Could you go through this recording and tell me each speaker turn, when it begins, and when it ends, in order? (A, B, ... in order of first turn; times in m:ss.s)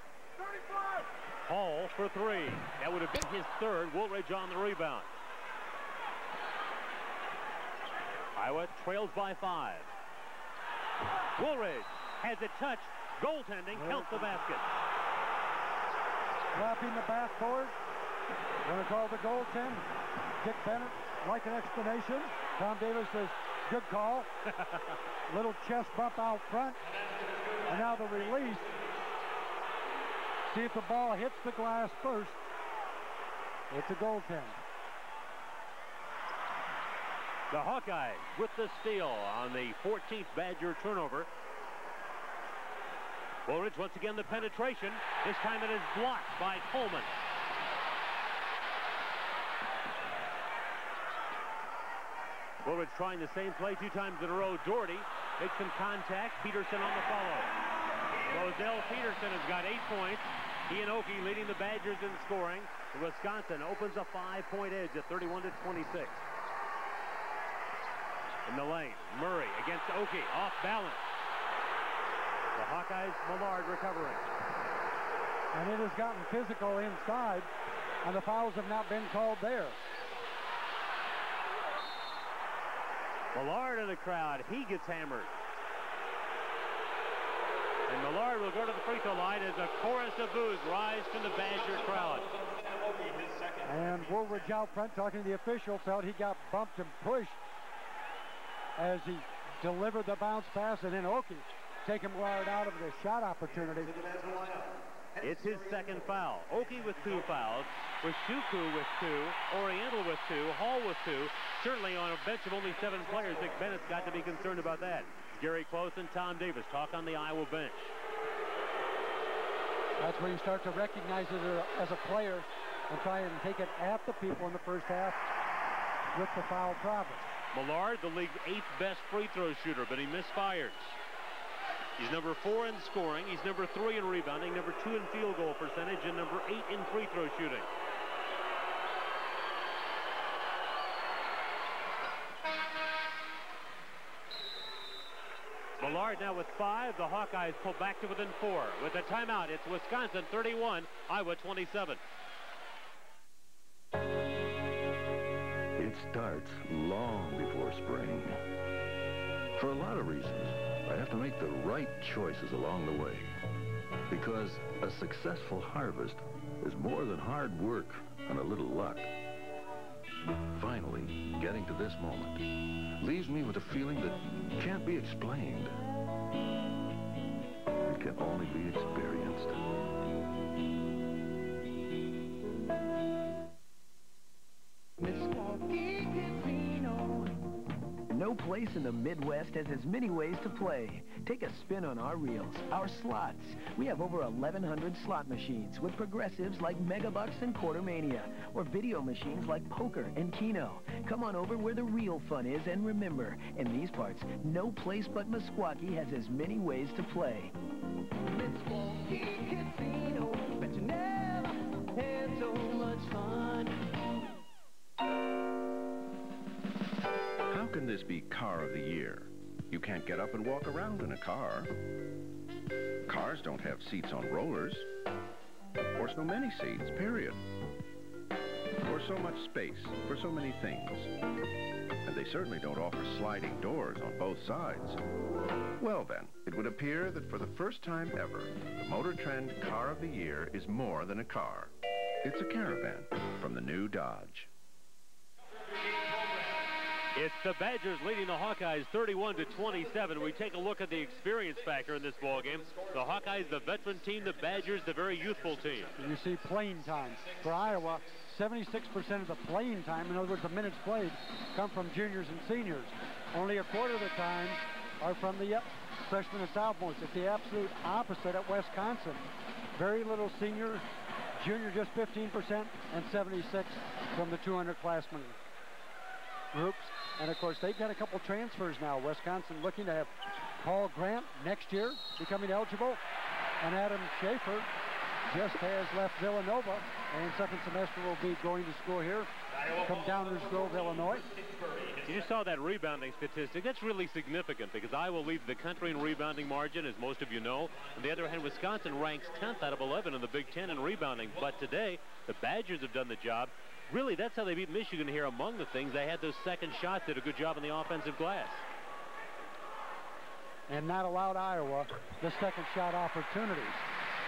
0:01.4-0:05.1 A
0:08.3-0:09.9 A
0:11.4-0:14.6 A
0:13.8-0:14.3 B
0:16.5-0:17.7 B
0:18.6-0:19.8 B
0:20.4-0:24.3 B
0:24.6-0:25.0 A
0:25.3-0:26.8 B
0:27.7-0:28.7 B
0:30.5-0:32.4 B
0:33.7-0:34.6 B
0:37.5-0:41.3 A
0:43.4-0:47.1 A
0:52.6-0:57.5 A
0:58.2-1:06.2 A
1:08.4-1:11.0 A
1:12.5-1:14.2 A
1:15.5-1:17.5 B
1:18.0-1:19.8 B
1:23.3-1:25.3 A
1:27.9-1:32.3 A
1:33.6-1:37.4 B
1:38.8-1:44.0 B
1:45.2-1:57.9 A
2:00.0-2:05.2 B
2:06.1-2:07.4 B
2:07.5-2:10.9 A
2:12.0-2:17.7 A
2:25.8-2:32.0 A
2:35.8-2:38.4 C
2:39.5-2:43.4 C
2:44.1-2:49.1 C
2:50.5-2:52.4 C
2:53.0-2:55.8 C
2:57.9-2:59.6 C
3:05.0-3:07.3 D
3:08.2-3:12.6 E
3:15.9-3:17.0 E
3:22.2-3:23.0 E
3:26.0-3:26.5 E
3:28.3-3:33.8 D
3:37.5-3:41.7 F
3:43.0-3:44.9 F
3:46.0-3:47.4 F
3:48.8-3:51.1 F
3:52.0-3:55.0 F
3:55.8-4:01.7 F
4:02.2-4:04.5 F
4:07.1-4:16.0 A
4:16.0-4:30.8 B
4:31.4-4:35.4 B
4:36.5-4:43.0 B
4:43.6-4:44.7 B
4:45.3-4:49.3 B
4:49.8-4:51.3 B
4:52.0-5:08.6 A
5:10.7-5:13.8 B